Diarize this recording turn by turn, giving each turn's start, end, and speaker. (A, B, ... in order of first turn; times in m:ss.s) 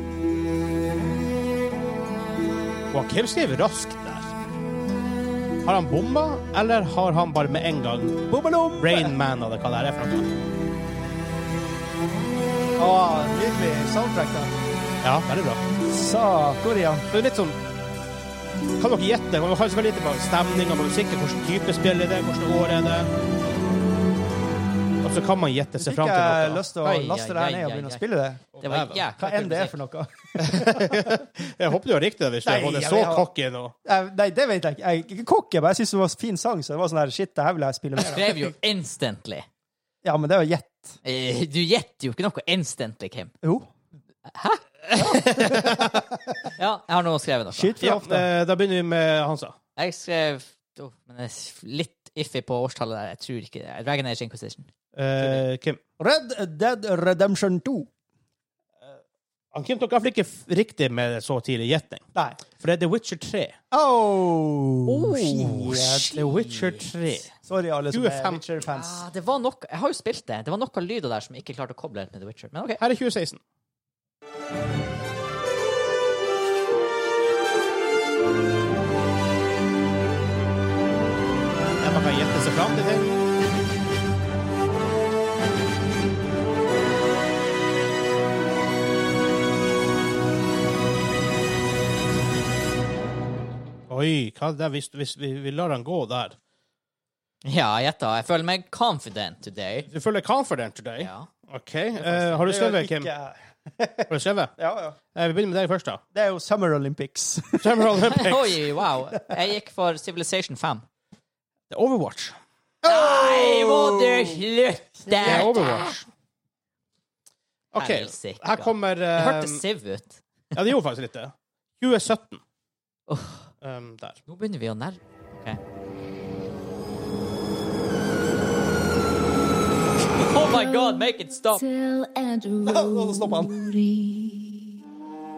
0:02.9-0:04.3 A
0:05.6-0:08.3 A
0:08.3-0:09.1 B
0:08.8-0:10.3 A
0:12.8-0:14.5 B
0:15.0-0:15.6 A
0:15.8-0:17.0 B
0:17.1-0:17.6 A
0:18.8-0:23.1 A
0:25.0-0:26.6 A
0:25.8-0:28.5 B
0:26.8-0:28.0 C
0:28.6-0:29.0 A
0:28.6-0:29.7 C
0:29.2-0:31.2 B
0:30.4-0:33.7 A
0:32.4-0:33.3 B
0:33.8-0:38.5 B
0:38.0-0:39.4 C
0:40.0-0:41.0 B
0:41.0-0:43.3 C
0:43.4-0:43.7 B
0:44.3-0:45.6 C
0:45.0-0:46.3 B
0:45.3-0:45.9 A
0:46.6-0:47.9 C
0:47.5-0:48.2 B
0:47.8-0:49.6 A
0:49.8-0:54.7 C
0:54.9-0:55.8 A
0:56.0-0:57.9 B
0:59.5-1:03.6 A
1:02.1-1:02.4 B
1:03.7-1:06.3 B
1:04.8-1:07.0 C
1:06.1-1:07.3 A
1:07.4-1:09.0 B
1:07.9-1:08.4 A
1:08.7-1:12.8 C
1:12.8-1:13.4 A
1:21.8-1:23.2 A
1:33.9-1:36.4 A
1:37.4-1:39.9 C
1:39.9-1:43.1 A
1:41.0-1:41.3 C
1:42.4-1:45.0 B
1:44.1-1:44.5 A
1:45.1-1:46.0 A
1:46.1-1:48.2 B
1:47.6-1:48.6 A
1:48.1-1:50.8 C
1:51.7-1:52.4 A
1:52.8-1:54.4 B
1:52.8-1:56.0 C
1:55.0-1:55.6 B
1:55.2-1:56.1 A
1:57.7-1:59.6 A
1:57.8-2:00.2 C
2:00.5-2:02.4 A
2:03.1-2:03.5 C
2:03.6-2:04.2 A
2:04.3-2:05.6 C
2:10.1-2:11.6 C
2:10.5-2:14.8 D
2:12.6-2:13.7 B